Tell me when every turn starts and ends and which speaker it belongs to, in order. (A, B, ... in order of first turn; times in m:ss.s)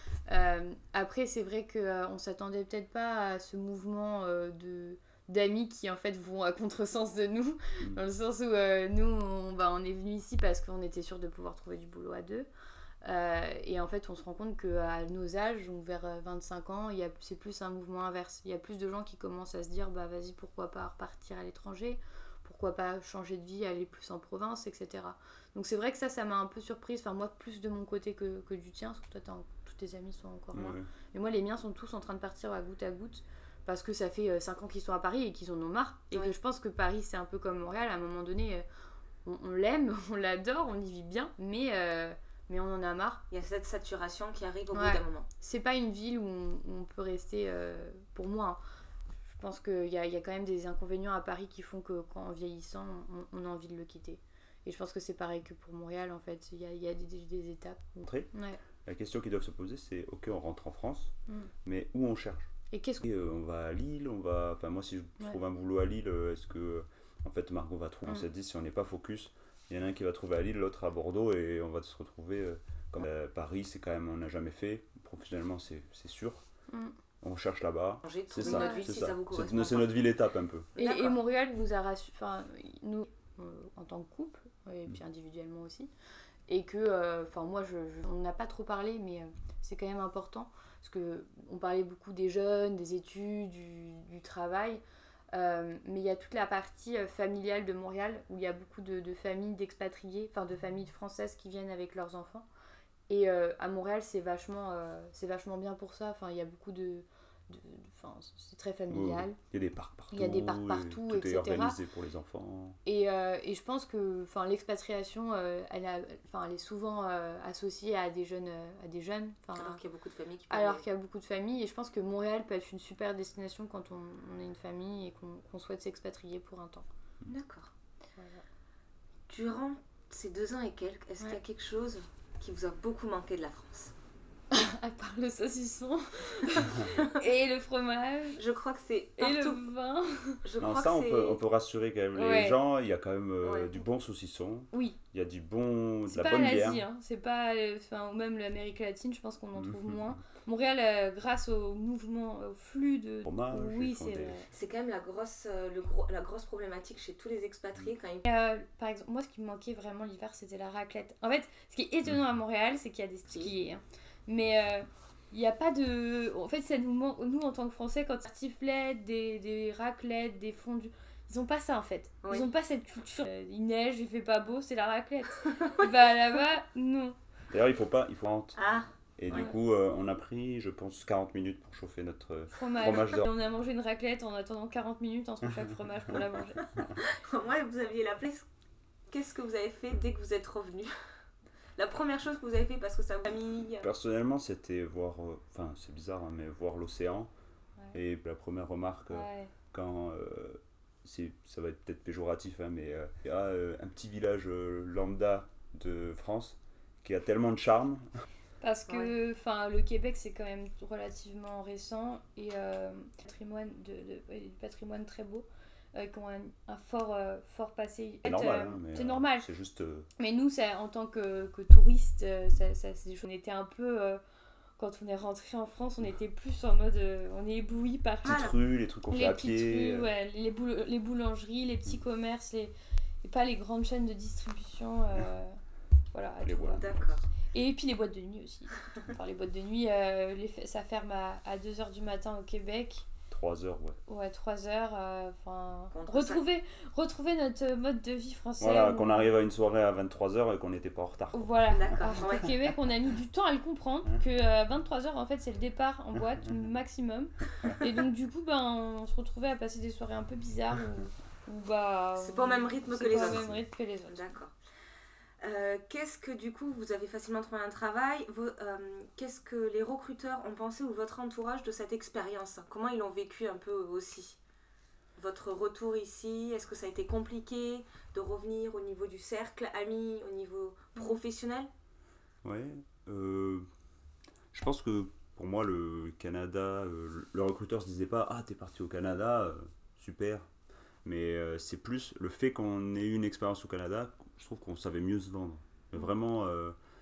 0:00.3-0:12.5 A
0:13.0-0:38.6 A
0:30.5-0:30.9 B
0:39.2-0:43.2 A
0:43.3-0:45.2 C
0:44.7-0:48.6 A
0:49.3-0:58.6 A
0:58.0-0:58.3 B
0:58.8-1:01.1 B
1:01.6-1:16.4 B
1:02.7-1:03.0 A
1:16.7-1:16.9 A
1:17.2-1:20.7 B
1:18.0-1:20.0 C
1:18.4-1:18.9 A
1:20.8-1:21.2 C
1:20.8-1:25.9 A
1:26.5-1:34.8 A
1:35.3-1:42.5 A
1:43.1-1:49.4 A
1:48.9-1:52.8 B
1:50.1-1:51.8 A
1:52.8-1:59.8 A
1:59.5-2:00.8 C
2:00.5-2:06.9 A
2:07.3-2:07.7 C
2:08.2-2:08.4 A
2:09.3-2:13.9 C
2:14.5-2:18.4 A
2:18.4-2:19.6 C
2:19.2-2:20.4 A
2:20.4-2:21.4 C
2:20.6-2:26.8 B
2:22.1-2:22.6 A
2:23.4-2:23.7 C
2:24.7-2:25.0 A
2:26.1-2:34.5 A
2:29.6-2:30.0 B
2:33.2-2:34.4 B
2:34.5-2:38.2 C
2:38.2-2:57.2 A
2:52.2-2:52.5 C
2:55.4-2:55.9 C
2:57.5-2:58.6 B
2:58.6-2:58.9 C
2:59.2-3:03.3 B
3:02.5-3:06.7 A
3:07.0-3:08.4 C
3:09.1-3:10.9 C
3:11.8-3:13.9 C
3:13.8-3:17.3 B
3:17.9-3:28.1 B
3:19.1-3:19.5 A
3:28.6-3:39.5 A
3:38.2-3:40.1 B
3:40.2-3:44.2 A
3:44.8-3:48.5 A
3:48.2-3:48.5 C
3:48.2-3:50.1 B
3:49.1-3:55.6 A
3:56.1-3:56.8 A
3:56.4-3:57.2 B
3:56.6-3:57.2 C
3:57.5-4:03.1 A
4:03.3-4:04.0 B
4:04.1-4:09.3 A
4:05.9-4:06.4 C
4:08.6-4:12.5 B
4:11.3-4:24.3 A
4:11.7-4:12.5 C
4:22.2-4:23.4 C
4:23.1-4:23.6 B
4:24.1-4:24.5 C
4:25.4-4:34.4 C
4:35.2-4:41.7 C
4:42.4-4:43.6 B
4:44.5-4:50.5 B
4:51.0-4:56.8 B